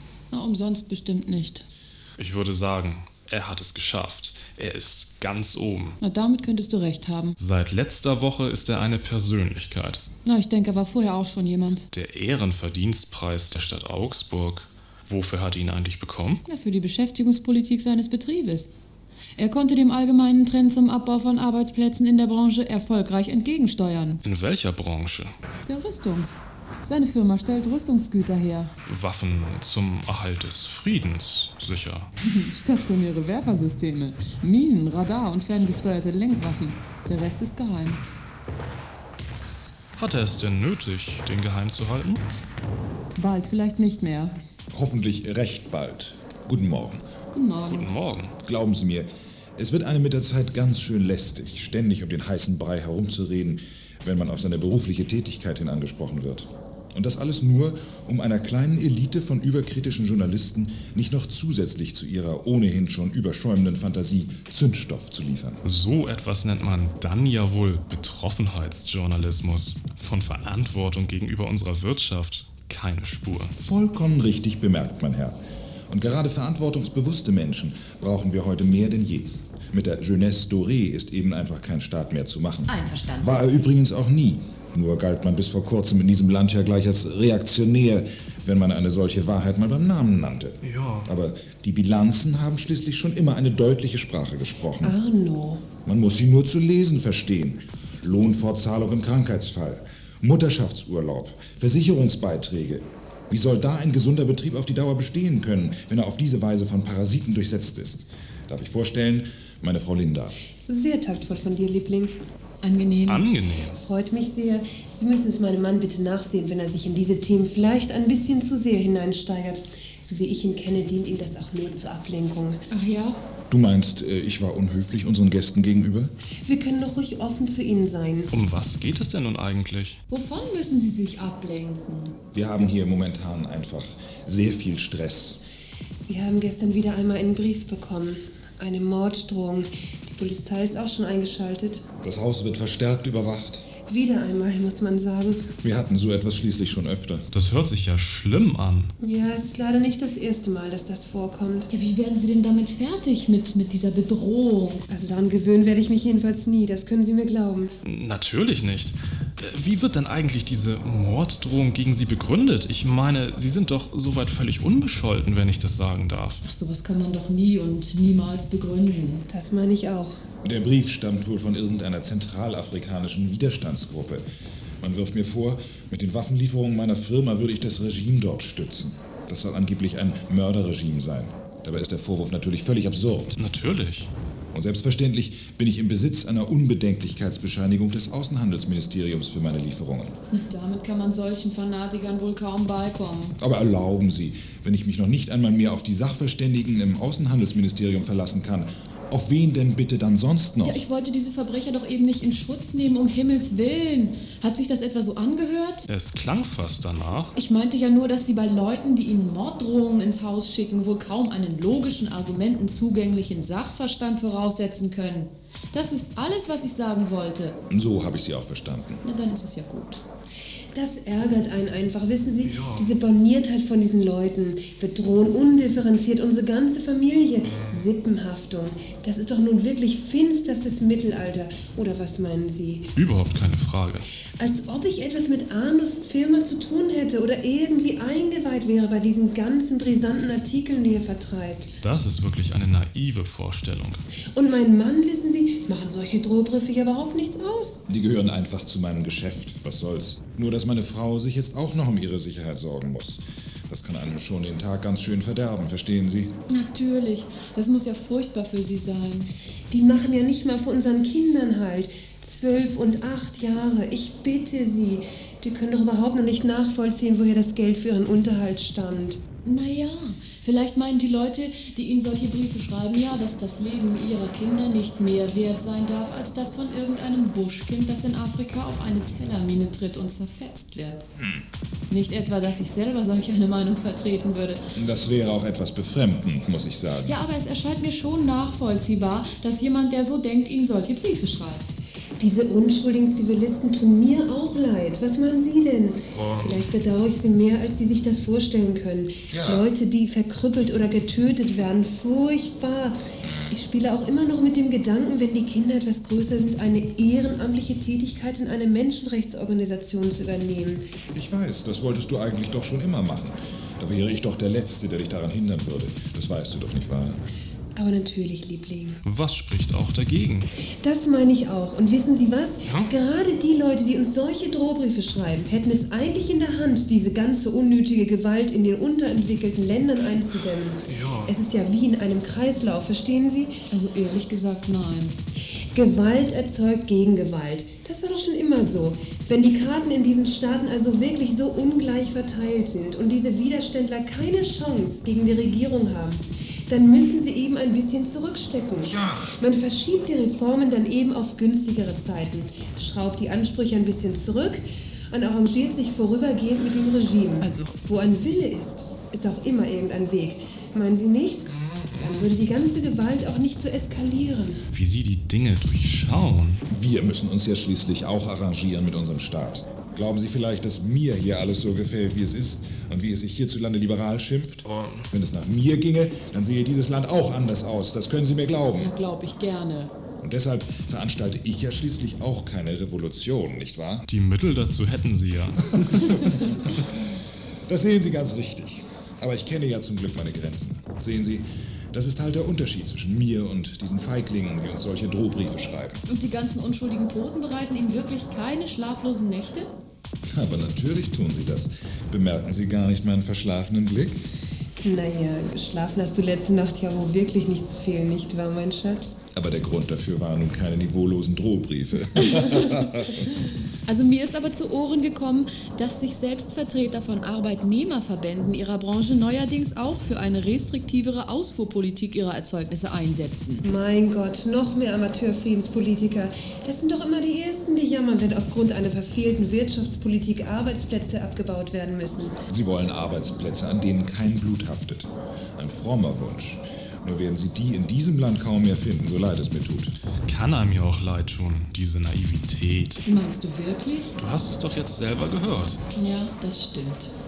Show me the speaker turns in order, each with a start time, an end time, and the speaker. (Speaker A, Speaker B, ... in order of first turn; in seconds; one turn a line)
Speaker A: 0.3-1.6
Speaker B: 2.2-6.0
Speaker A: 6.0-7.4
Speaker B: 7.4-10.0
Speaker A: 10.2-11.9
Speaker B: 11.9-16.4
Speaker A: 16.4-18.7
Speaker A: 19.4-24.2
Speaker B: 24.2-25.3
Speaker A: 25.6-26.3
Speaker A: 26.8-28.7
Speaker B: 28.9-32.1
Speaker A: 32.1-38.0
Speaker B: 40.0-42.2
Speaker A: 43.1-44.3
Speaker C: 44.7-47.0
Speaker A: 47.3-47.9
Speaker B: 47.7-48.3
Speaker C: 48.4-65.6
Speaker B: 65.6-73.5
Speaker C: 73.6-75.4
Speaker C: 75.9-95.0
Speaker A: 82.7-83.3
Speaker B: 90.6-91.1
Speaker D: 94.8-95.7
Speaker C: 95.8-110.3
Speaker D: 110.7-112.2
Speaker A: 112.6-113.3
Speaker B: 113.1-113.8
Speaker D: 113.7-122.6
Speaker A: 122.7-123.2
Speaker C: 123.5-126.1
Speaker D: 126.4-128.3
Speaker B: 128.3-130.0
Speaker A: 130.1-132.1
Speaker C: 132.3-135.4
Speaker D: 136.0-141.8
Speaker C: 142.0-143.7
Speaker D: 143.9-145.5
Speaker C: 145.6-147.3
Speaker B: 147.3-148.9
Speaker D: 149.0-151.7
Speaker A: 151.7-154.8
Speaker D: 154.9-157.7
Speaker B: 157.8-166.4
Speaker A: 166.4-169.2
Speaker D: 169.3-170.2
Speaker C: 170.4-174.2
Speaker C: 174.8-183.3
Speaker B: 183.3-184.1
Speaker C: 184.5-190.2
Speaker A: 190.3-193.4
Speaker C: 193.4-200.8
Speaker A: 200.6-205.9
Speaker B: 205.9-207.3
Speaker A: 207.3-217.6
Speaker C: 217.7-219.0
Speaker A: 219.0-220.0
Speaker D: 220.7-232.9
Speaker B: 222.4-222.9
Speaker B: 232.9-234.1
Speaker D: 234.4-241.7
Speaker B: 241.8-244.0
Speaker D: 244.3-247.8
Speaker C: 247.9-256.3
Speaker A: 256.5-259.3
Speaker D: 259.7-269.2
Speaker A: 269.4-281.0
Speaker C: 281.2-281.4
Speaker A: 281.9-284.6
Speaker C: 284.7-287.2
Speaker A: 287.0-291.7
Speaker D: 292.2-310.8
Speaker B: 296.1-296.6
Speaker C: 299.3-299.7
Speaker C: 303.2-303.6
Speaker C: 311.1-317.2
Speaker D: 317.8-319.0
Speaker B: 319.0-320.5
Speaker D: 320.8-333.6
Speaker B: 322.6-322.9
Speaker B: 330.9-331.4
Speaker A: 333.7-335.1
Speaker D: 335.7-364.6
Speaker C: 348.9-349.3
Speaker A: 357.4-357.7
Speaker B: 361.7-362.1
Speaker B: 364.7-366.6
Speaker C: 366.7-378.9
Speaker B: 374.6-375.1
Speaker A: 378.8-379.9
Speaker C: 380.2-384.1
Speaker B: 384.1-386.6
Speaker C: 385.9-387.1
Speaker C: 387.7-396.0
Speaker A: 396.1-399.7
Speaker C: 400.3-404.2
Speaker D: 404.8-409.1
Speaker C: 409.3-413.3
Speaker A: 413.9-423.6
Speaker D: 423.6-432.4
Speaker C: 432.5-439.9
Speaker B: 440.2-443.0
Speaker A: 443.1-444.1
Speaker B: 444.2-445.8
Speaker A: 445.9-447.1